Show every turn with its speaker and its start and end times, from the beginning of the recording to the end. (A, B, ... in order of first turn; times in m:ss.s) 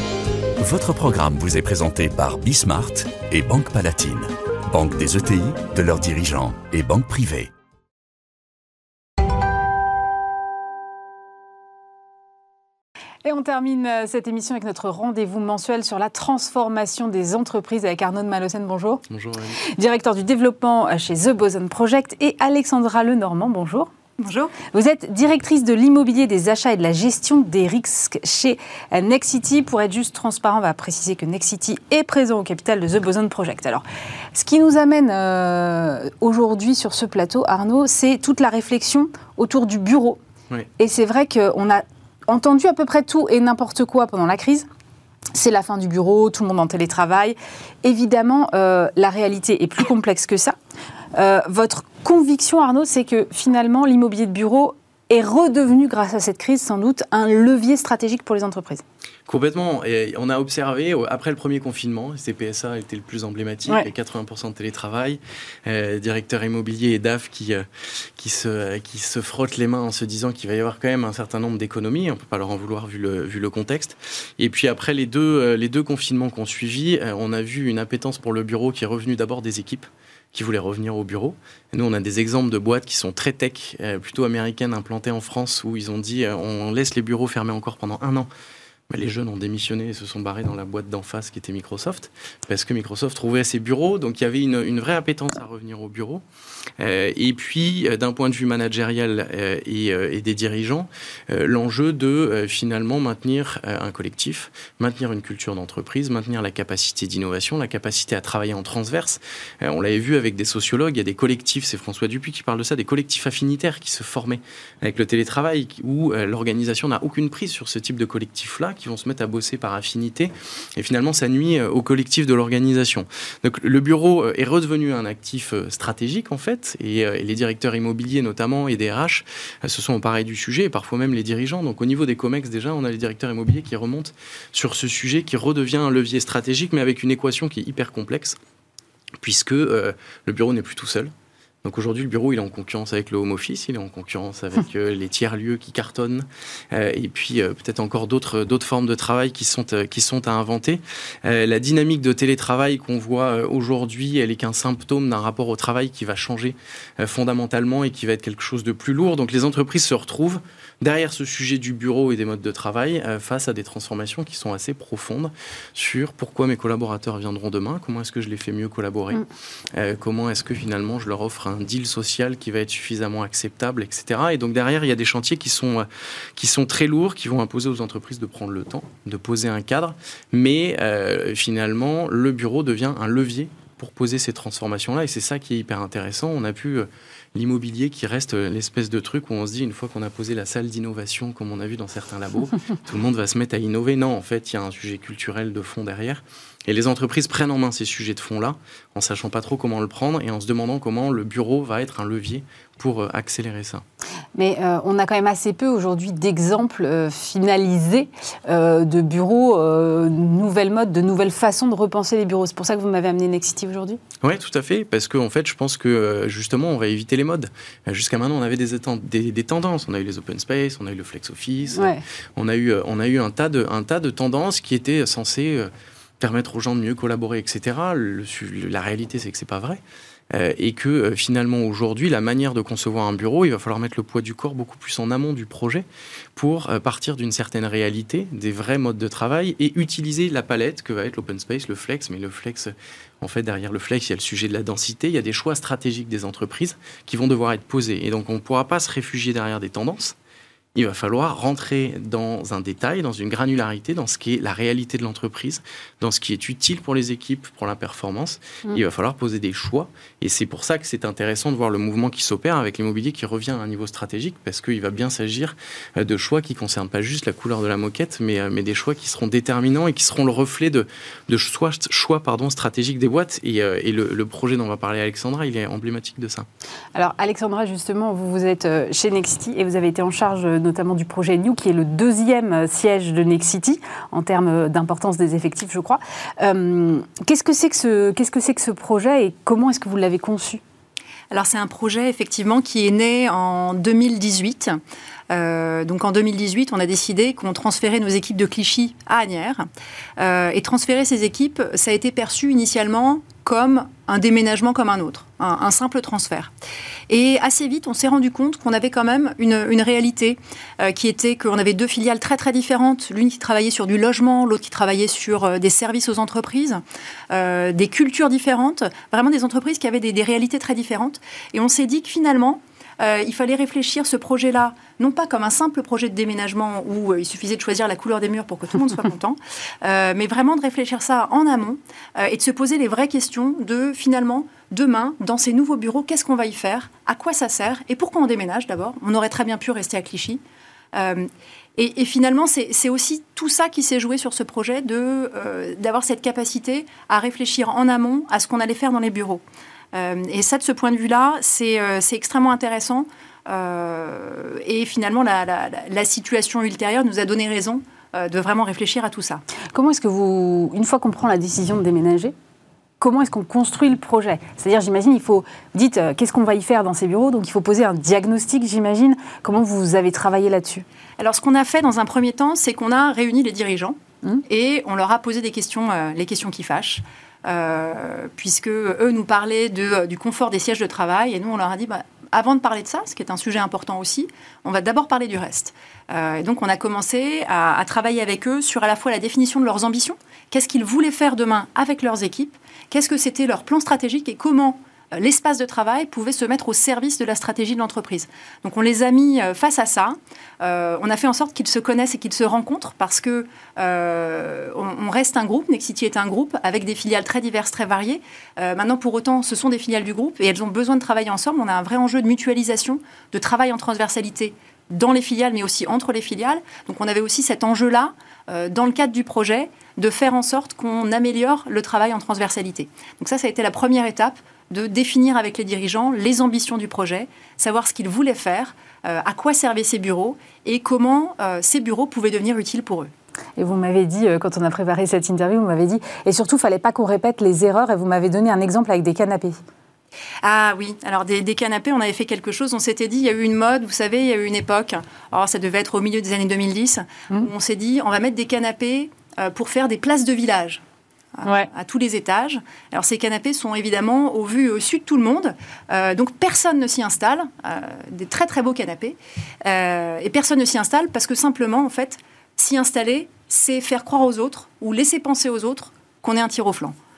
0:00.6-0:07.5 A
0:13.2-0:19.0 B
0:19.1-0:19.6 C
0:19.7-0:23.9 B
0:24.2-0:24.6 D
0:24.7-0:40.2 B
0:40.8-0:44.7 B
0:45.3-0:50.6 B
0:51.2-0:58.8 B
0:59.3-1:28.3 C
1:28.9-1:36.2 C
1:36.8-2:18.4 C
2:19.2-2:21.1 C
2:21.6-3:23.8 C
3:24.4-3:34.0 B
3:34.2-4:10.2 C
3:41.8-3:42.0 B
4:10.8-4:36.5 C
4:37.0-4:50.6 B
4:51.3-4:54.8 D
4:55.3-4:59.7 D
5:00.2-5:06.5 D
5:07.1-5:40.4 D
5:40.9-5:59.4 D
5:59.7-6:02.3 B
6:03.0-6:10.8 B
6:11.2-7:13.1 D
7:13.6-7:19.6 B
7:20.4-7:30.8 D
7:31.4-7:47.0 D